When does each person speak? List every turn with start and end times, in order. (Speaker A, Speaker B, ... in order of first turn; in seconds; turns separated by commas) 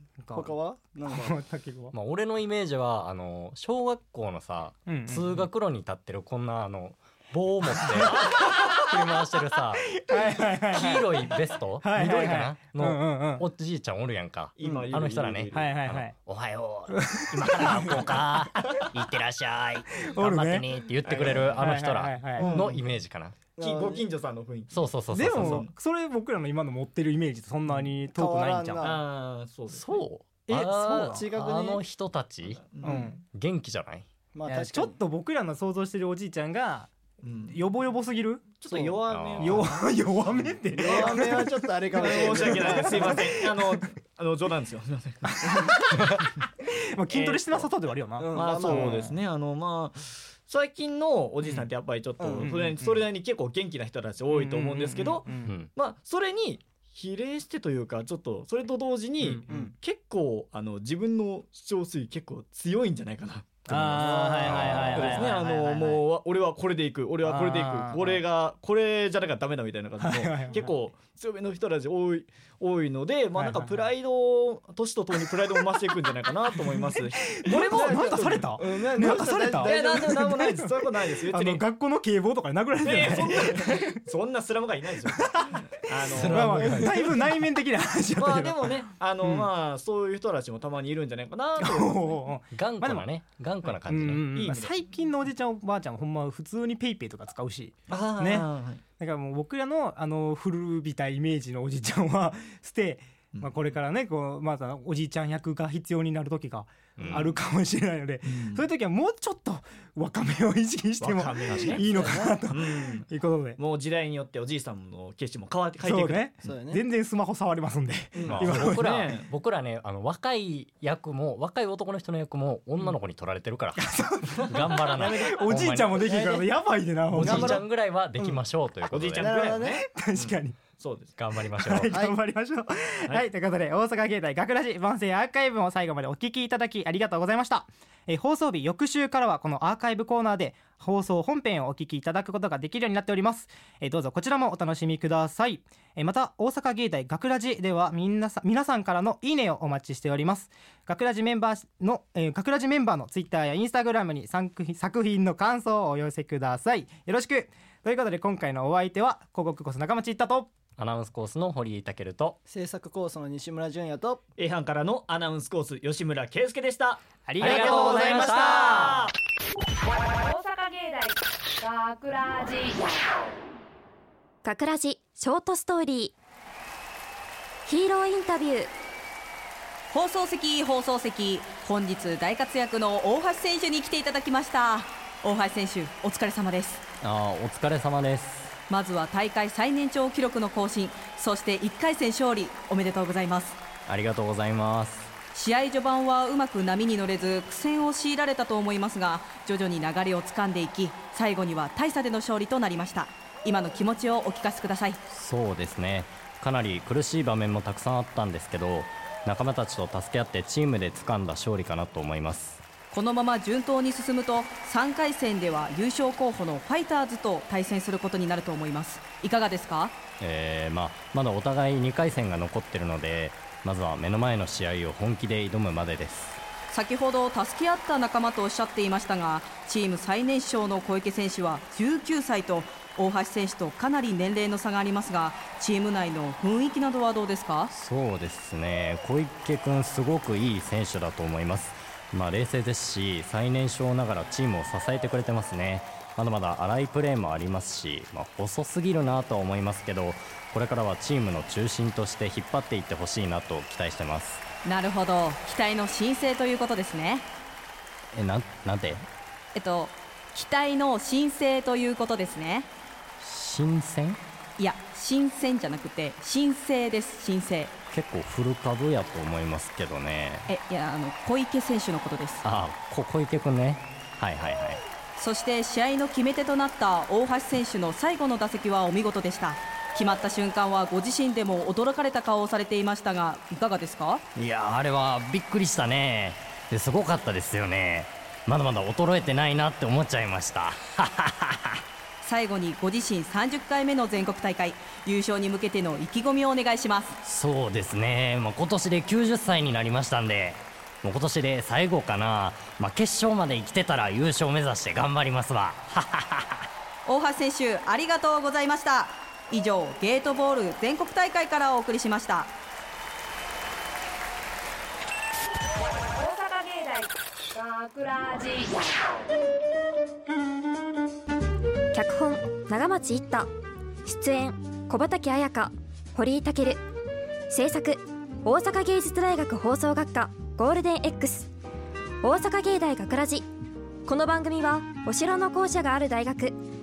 Speaker A: 0.2-1.9, Speaker B: 0.3-1.4, Speaker C: 1.9-23.4, Speaker A: 4.9-5.3, Speaker A: 8.0-8.8, Speaker D: 8.3-8.7, Speaker A: 9.9-13.5, Speaker D: 14.6-15.7, Speaker A: 15.5-16.1, Speaker A: 16.9-18.9, Speaker A: 20.0-20.7, Speaker D: 21.1-21.6, Speaker A: 21.3-22.6, Speaker D: 22.4-22.8, Speaker B: 23.6-24.1, Speaker D: 23.6-25.7, Speaker C: 24.7-25.6, Speaker A: 25.1-28.9, Speaker B: 28.1-29.0, Speaker D: 28.8-30.0, Speaker C: 29.7-32.6, Speaker A: 30.5-31.2, Speaker B: 31.0-31.8, Speaker D: 32.5-33.1, Speaker B: 32.8-33.1, Speaker A: 32.8-33.2, Speaker C: 33.3-34.0, Speaker B: 34.3-35.0, Speaker A: 34.5-36.9, Speaker D: 37.2-37.6, Speaker A: 37.5-38.6, Speaker D: 38.6-41.3, Speaker B: 38.7-39.0, Speaker C: 39.1-39.7, Speaker A: 39.4-43.8, Speaker B: 40.7-43.2, Speaker D: 41.9-46.3, Speaker A: 45.2-49.1, Speaker D: 47.1-47.7, Speaker B: 48.2-49.1, Speaker D: 48.3-78.6, Speaker A: 51.4-51.7, Speaker B: 52.2-52.7, Speaker A: 52.4-53.0, Speaker A: 54.3-55.5, Speaker C: 55.4-55.7, Speaker A: 63.7-66.0, Speaker B: 63.7-65.4, Speaker C: 64.5-65.1, Speaker A: 67.2-68.2, Speaker A: 70.0-70.7, Speaker A: 73.4-73.9, Speaker A: 76.9-84.0, Speaker B: 77.5-80.4, Speaker D: 79.1-81.6, Speaker D: 82.8-87.3, Speaker A: 85.2-89.5, Speaker C: 86.1-87.2, Speaker D: 88.2-92.2, Speaker A: 91.6-93.1, Speaker C: 92.5-94.4, Speaker A: 93.8-98.4, Speaker D: 94.2-94.8, Speaker D: 97.9-98.8, Speaker A: 99.0-113.6, Speaker C: 107.0-107.3, Speaker D: 107.0-107.3, Speaker D: 108.2-108.6, Speaker D: 111.0-116.5, Speaker C: 111.5-112.0, Speaker B: 111.9-112.3, Speaker A: 115.8-119.0, Speaker B: 116.4-116.8, Speaker D: 118.2-119.3, Speaker C: 118.3-126.0, Speaker A: 123.8-127.6, Speaker B: 125.0-126.5, Speaker C: 127.1-129.4, Speaker B: 127.2-127.6, Speaker D: 128.9-131.2, Speaker B: 129.2-129.8, Speaker A: 129.5-130.6, Speaker C: 131.2-132.0, Speaker A: 131.6-160.5, Speaker B: 131.8-132.1, Speaker C: 160.8-162.4, Speaker B: 162.4-164.2, Speaker D: 164.4-169.1, Speaker A: 167.2-169.0, Speaker C: 167.4-169.0, Speaker E: 170.2-172.7, Speaker F: 174.4-176.1, Speaker F: 177.7-178.7, Speaker G: 179.9-186.8, Speaker C: 187.0-188.5, Speaker G: 188.7-193.6, Speaker C: 193.9-195.1, Speaker G: 195.3-205.0, Speaker C: 205.1-212.6, Speaker G: 212.9-220.0, Speaker C: 220.2-226.4, Speaker G: 226.7-237.7, Speaker C: 237.7-254.4, Speaker G: 254.6-257.2, Speaker C: 258.1-259.1, Speaker G: 259.5-262.7, Speaker C: 263.2-264.2, Speaker G: 264.6-267.7, Speaker C: 267.9-270.5, Speaker G: 270.5-272.4, Speaker C: 272.4-274.8, Speaker G: 275.2-284.2, Speaker C: 284.3-291.8, Speaker G: 292.2-297.1, Speaker C: 297.2-306.6, Speaker G: 307.1-312.5, Speaker E: 316.2-318.7, Speaker F: 321.9-323.5, Speaker F: 324.1-326.8, Speaker F: 327.5-331.5, Speaker F: 332.2-333.5, Speaker F: 334.1-336.6